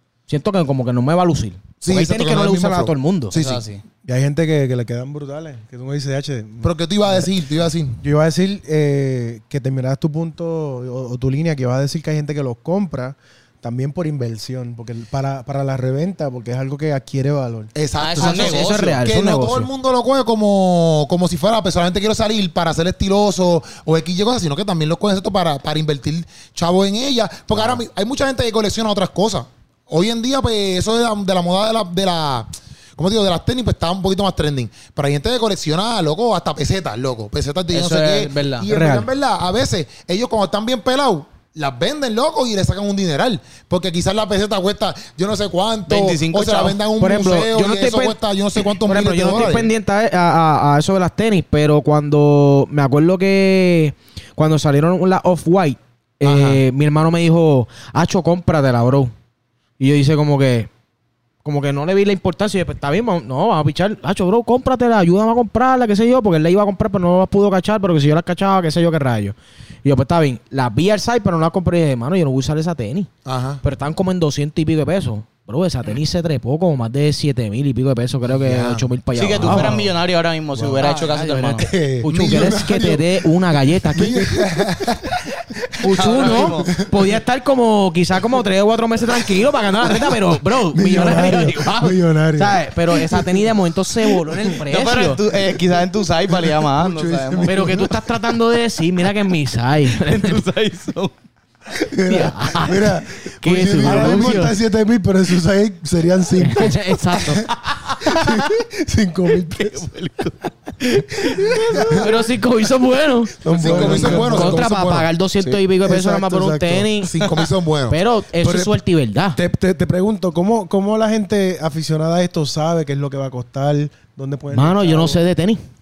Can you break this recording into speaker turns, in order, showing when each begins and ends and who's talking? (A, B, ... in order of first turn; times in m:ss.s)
0:00.3-0:03.3 A
0:01.8-0:03.6 B
0:03.3-0:03.8 C
0:04.0-0:07.3 D
0:06.6-0:08.0 B
0:08.0-0:17.7 D
0:17.8-0:49.7 B
0:18.0-0:19.0 C
0:18.2-0:19.7 A
0:37.7-0:38.7 C
0:38.6-0:39.1 A
0:45.9-0:46.8 C
0:47.0-0:59.1 A
0:56.2-0:56.6 B
0:59.8-1:00.7 A
1:01.4-1:13.1 A
1:13.2-1:13.6 B
1:13.6-1:19.8 A
1:18.4-1:18.8 B
1:19.2-1:21.7 C
1:19.4-1:19.9 D
1:20.6-1:20.9 D
1:20.8-1:24.3 A
1:21.6-1:22.5 D
1:22.1-1:23.1 B
1:23.9-1:25.2 B
1:24.2-1:24.5 D
1:25.8-1:26.5 B
1:25.8-1:35.2 A
1:25.9-1:26.7 C
1:30.7-1:33.2 D
1:34.7-1:37.8 C
1:36.3-1:38.1 D
1:37.4-1:40.4 A
1:39.9-1:41.1 C
1:41.7-1:47.4 D
1:42.1-1:44.5 A
1:43.5-1:44.5 B
1:46.4-1:47.5 A
1:48.0-1:49.8 D
1:49.5-1:52.1 C
1:51.2-1:52.1 D
1:51.9-1:57.2 A
1:53.4-1:54.7 D
1:53.5-1:55.1 B
1:55.8-1:56.9 D
1:57.0-1:58.0 B
1:57.9-1:59.4 A
1:58.4-1:58.7 D
1:59.4-2:05.2 D
2:04.5-2:05.6 A